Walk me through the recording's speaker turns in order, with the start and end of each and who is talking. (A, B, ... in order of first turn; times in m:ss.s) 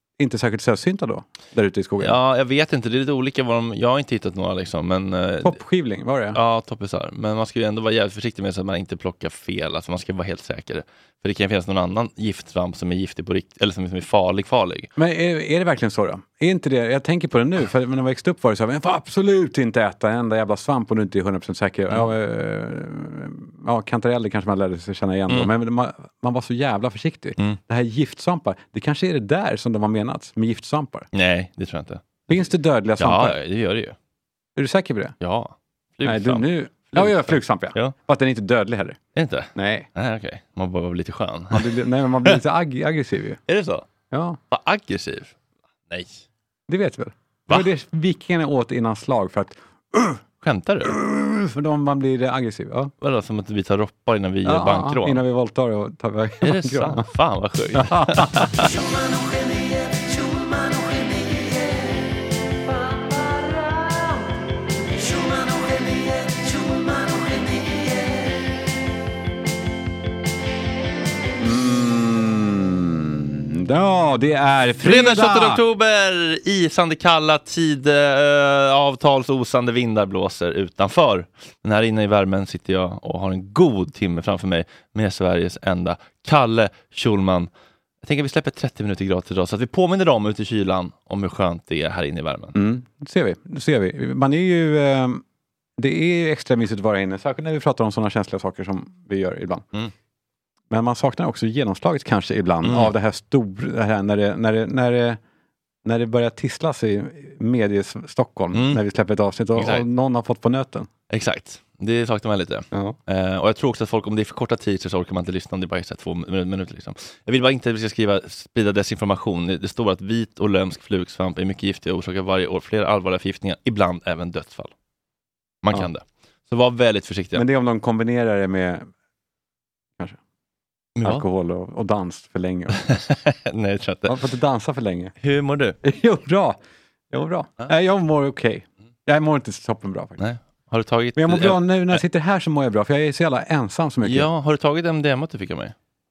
0:00.2-0:02.2 A
0:02.0-0:05.6 B
0:05.4-0:06.4 A
0:06.3-0:14.9 B
0:15.0-0:31.1 A
0:31.1-0:32.0 B
0:32.3-0:33.4 A
0:33.0-0:33.9 B
0:34.6-0:35.1 A
0:35.2-0:37.9 B
0:36.0-0:39.0 A
0:39.2-0:42.4 B
0:39.5-0:39.9 A
0:41.5-0:43.4 A
0:43.5-0:43.8 B
0:44.1-0:44.4 A
0:44.5-0:45.3 B
0:45.9-0:46.2 B
0:46.7-0:50.2 A
0:50.4-0:51.0 B
0:50.8-0:52.9 A
0:53.0-0:55.2 B
0:54.4-0:57.0 A
0:56.4-0:58.7 B
0:57.8-0:58.6 A
1:11.4-1:15.6 A
1:14.8-1:27.5 B
1:28.0-1:32.6 B
1:32.5-1:35.2 A
1:35.8-1:39.6 A
1:40.7-1:45.2 A
1:42.6-1:42.9 B
1:45.8-1:50.9 A
1:48.5-1:48.8 B
1:49.6-1:49.8 B
1:51.1-2:04.7 B
2:05.6-2:07.4 B
2:07.3-2:08.9 A
2:11.0-2:11.2 B
2:11.0-2:12.8 A
2:12.8-2:14.2 B
2:14.0-2:15.1 A
2:15.2-2:15.8 B
2:15.8-2:16.6 A
2:17.1-2:20.2 A
2:20.2-2:22.0 B
2:21.1-2:24.3 A
2:24.0-2:25.7 B